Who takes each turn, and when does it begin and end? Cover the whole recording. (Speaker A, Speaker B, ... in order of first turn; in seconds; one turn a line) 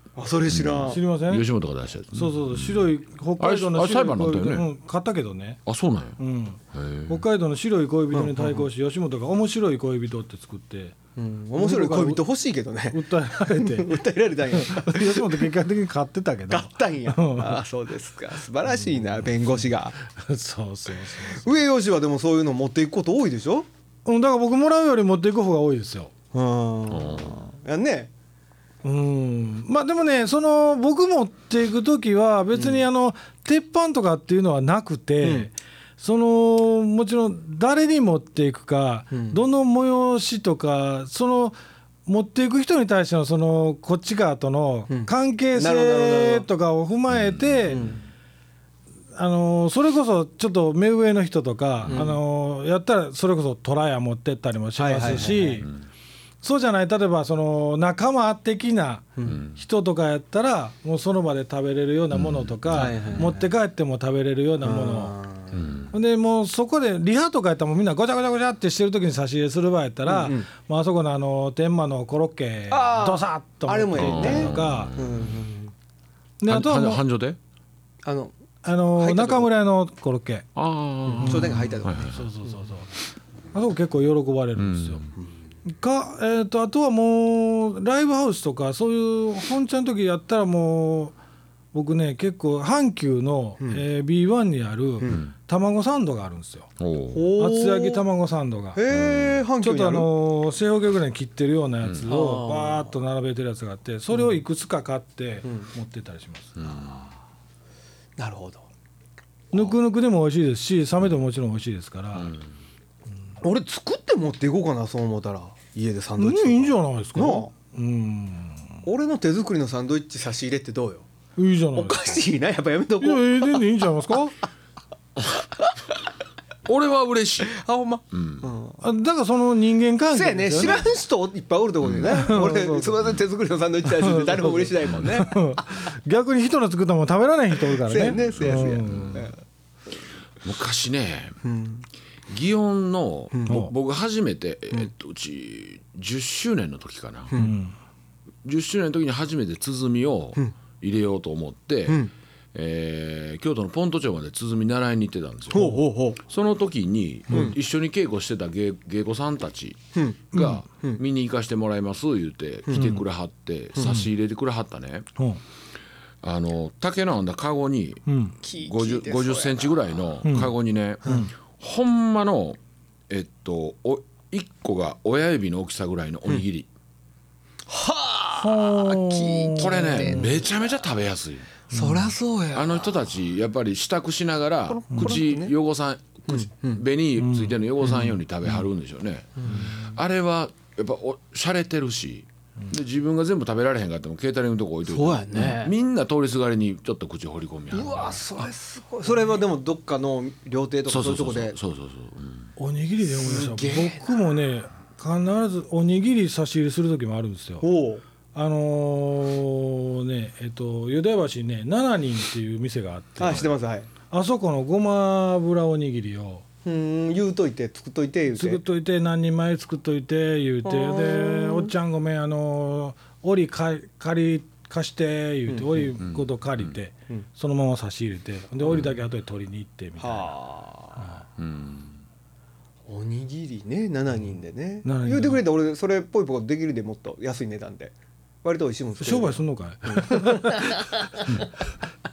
Speaker A: 0.1-1.0
Speaker B: 0.5-4.7
Speaker C: 0.9-1.4
Speaker C: 2.1-5.6
Speaker B: 5.7-6.2
Speaker C: 6.2-10.9
Speaker B: 6.7-7.2
Speaker A: 8.1-8.7
Speaker A: 11.2-15.5
Speaker C: 11.6-12.2
Speaker C: 12.9-14.0
Speaker C: 14.5-17.6
Speaker A: 16.5-19.9
Speaker C: 20.0-21.6
Speaker A: 21.3-23.6
Speaker C: 24.1-26.1
Speaker A: 26.3-28.1
Speaker B: 26.9-27.4
Speaker C: 28.8-47.9
Speaker A: 32.5-32.9
Speaker A: 35.2-35.5
Speaker A: 39.1-39.4
Speaker A: 44.9-46.5
Speaker B: 47.1-47.9
Speaker A: 47.7-48.0
Speaker C: 49.1-55.7
Speaker A: 51.9-52.2
Speaker A: 54.8-55.7
Speaker C: 56.4-65.1
Speaker B: 59.2-59.6
Speaker B: 62.1-63.3
Speaker A: 62.7-63.5
Speaker A: 64.6-65.7
Speaker B: 65.5-65.9
Speaker C: 65.9-74.9
Speaker A: 70.0-70.5
Speaker A: 72.7-75.7
Speaker B: 73.9-75.4
Speaker C: 76.4-77.0
Speaker B: 76.5-77.4
Speaker A: 78.0-78.3
Speaker C: 78.6-80.5
Speaker A: 78.9-79.5
Speaker B: 80.5-82.2
Speaker A: 81.1-82.1
Speaker C: 81.2-82.9
Speaker C: 83.5-85.1
Speaker B: 84.5-85.1
Speaker C: 85.7-91.1
Speaker C: 91.7-96.7
Speaker B: 95.1-95.3
Speaker B: 96.8-97.3
Speaker A: 97.1-98.0
Speaker C: 97.4-98.8
Speaker A: 98.7-100.1
Speaker B: 98.9-99.4
Speaker C: 99.6-106.5
Speaker B: 101.8-102.1
Speaker A: 102.1-102.9
Speaker A: 104.1-104.4
Speaker A: 105.4-105.7
Speaker B: 106.5-107.1
Speaker A: 108.2-108.6
Speaker C: 109.5-112.3
Speaker B: 112.1-112.5
Speaker A: 113.4-117.5
Speaker C: 116.2-118.8
Speaker A: 118.8-121.1
Speaker C: 121.4-122.2
Speaker A: 121.7-123.6
Speaker C: 123.0-124.3
Speaker B: 126.7-127.6
Speaker A: 127.5-128.8
Speaker B: 128.1-128.4
Speaker C: 128.8-130.9
Speaker A: 130.1-135.5
Speaker B: 131.8-132.2
Speaker C: 132.0-132.9
Speaker C: 133.9-139.3
Speaker A: 137.8-139.3
Speaker B: 138.1-139.3
Speaker B: 140.4-141.4
Speaker A: 141.4-141.8
Speaker B: 142.3-147.3
Speaker C: 143.5-143.7
Speaker A: 147.3-147.6
Speaker C: 147.3-147.7
Speaker B: 148.4-159.8
Speaker A: 151.9-152.1
Speaker A: 155.5-156.2
Speaker A: 157.3-157.6
Speaker A: 159.9-161.0
Speaker C: 160.3-160.6
Speaker B: 160.3-165.1
Speaker A: 162.7-162.9
Speaker C: 162.7-163.0
Speaker A: 163.8-164.0
Speaker B: 166.2-168.0
Speaker C: 168.1-168.3
Speaker A: 168.4-169.9
Speaker B: 168.6-176.7
Speaker C: 170.2-171.3
Speaker A: 171.0-171.3
Speaker A: 177.7-180.8
Speaker C: 178.4-180.4
Speaker B: 179.6-181.5
Speaker C: 181.7-182.1
Speaker A: 181.7-183.0
Speaker B: 182.5-198.5
Speaker A: 184.7-185.5
Speaker C: 184.9-185.2
Speaker A: 186.3-186.8
Speaker C: 187.2-187.5
Speaker A: 187.8-188.1
Speaker A: 189.4-189.8
Speaker A: 194.8-195.7
Speaker A: 197.7-201.5
Speaker B: 200.9-202.5
Speaker C: 202.6-207.7
Speaker A: 203.1-204.2
Speaker A: 207.6-208.0
Speaker C: 208.3-213.5
Speaker A: 213.2-213.9
Speaker B: 213.2-213.5
Speaker C: 214.1-216.4
Speaker A: 216.6-218.6
Speaker C: 218.3-230.3
Speaker A: 220.6-221.7
Speaker A: 225.5-225.9
Speaker B: 226.0-226.8
Speaker A: 230.0-231.1
Speaker C: 231.0-231.2
Speaker B: 231.4-232.0
Speaker A: 232.9-241.2
Speaker C: 234.8-235.4
Speaker C: 239.0-240.8